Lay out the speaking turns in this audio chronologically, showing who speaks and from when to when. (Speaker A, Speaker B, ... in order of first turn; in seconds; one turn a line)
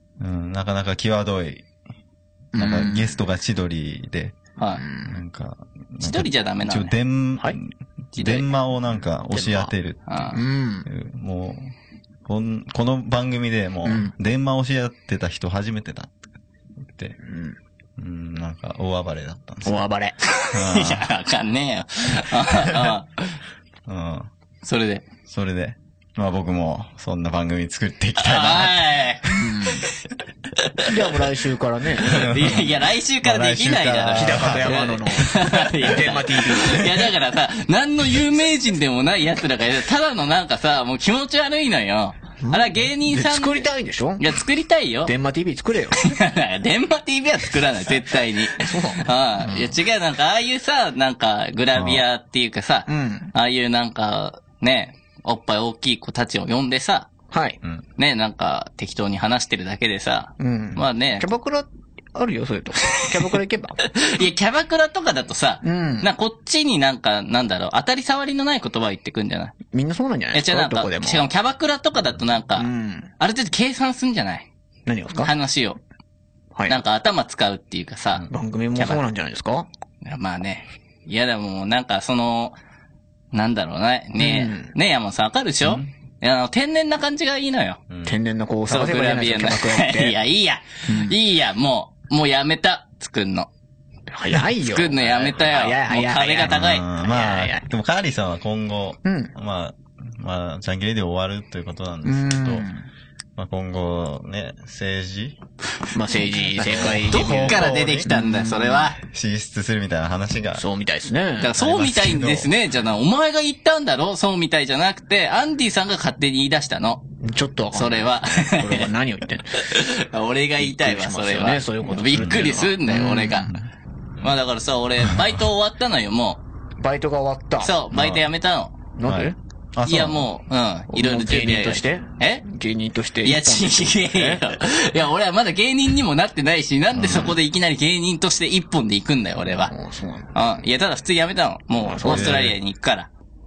Speaker A: 0.2-1.6
Speaker B: 2.5-3.1
Speaker A: 2.5-4.4
Speaker B: 4.8-5.2
Speaker A: 5.0-10.0
Speaker C: 6.0-6.9
Speaker C: 8.2-8.5
Speaker B: 9.3-9.7
Speaker C: 10.1-10.4
Speaker B: 10.3-10.9
Speaker A: 10.8-11.7
Speaker A: 12.2-16.2
Speaker B: 13.8-14.1
Speaker A: 16.8-17.1
Speaker B: 17.2-17.6
Speaker A: 18.0-19.8
Speaker B: 19.6-20.2
Speaker C: 20.4-23.4
Speaker A: 20.5-21.1
Speaker A: 22.4-22.9
Speaker A: 23.9-24.3
Speaker C: 24.6-25.1
Speaker A: 25.2-28.8
Speaker C: 28.2-29.3
Speaker B: 29.3-29.9
Speaker C: 30.6-30.9
Speaker B: 30.8-32.3
Speaker A: 32.0-35.5
Speaker C: 32.1-43.6
Speaker B: 34.1-37.1
Speaker B: 42.4-44.2
Speaker C: 44.2-45.1
Speaker B: 45.0-46.2
Speaker C: 46.0-57.1
Speaker B: 48.5-49.7
Speaker A: 51.7-52.0
Speaker B: 52.9-53.3
Speaker B: 57.3-57.6
Speaker C: 58.0-61.2
Speaker B: 60.4-63.8
Speaker C: 63.9-69.5
Speaker B: 65.6-66.1
Speaker B: 69.7-71.3
Speaker C: 70.3-74.5
Speaker B: 72.5-73.1
Speaker B: 74.8-75.3
Speaker C: 75.1-75.8
Speaker C: 76.7-78.3
Speaker B: 78.3-79.7
Speaker C: 80.0-82.5
Speaker C: 83.3-87.8
Speaker B: 84.2-84.7
Speaker A: 87.9-88.2
Speaker B: 88.0-90.2
Speaker C: 88.7-93.5
Speaker B: 90.9-91.1
Speaker B: 94.1-97.7
Speaker C: 94.6-96.8
Speaker A: 96.4-102.7
Speaker B: 99.0-99.3
Speaker B: 102.0-102.9
Speaker A: 103.3-105.4
Speaker B: 105.9-108.9
Speaker A: 106.7-108.2
Speaker C: 106.8-109.0
Speaker A: 109.0-110.6
Speaker B: 110.5-111.5
Speaker C: 111.4-117.0
Speaker A: 111.5-112.5
Speaker B: 117.2-119.9
Speaker C: 117.7-118.9
Speaker C: 119.6-123.5
Speaker B: 120.6-123.5
Speaker A: 122.2-122.4
Speaker C: 124.2-126.4
Speaker B: 126.8-127.7
Speaker C: 127.6-128.7
Speaker A: 127.9-128.3
Speaker B: 128.9-129.3
Speaker A: 129.0-130.3
Speaker C: 129.8-132.4
Speaker B: 130.9-134.4
Speaker C: 133.2-139.7
Speaker A: 136.9-137.4
Speaker B: 139.7-140.3
Speaker C: 140.3-143.1
Speaker B: 141.8-142.5
Speaker A: 142.0-142.6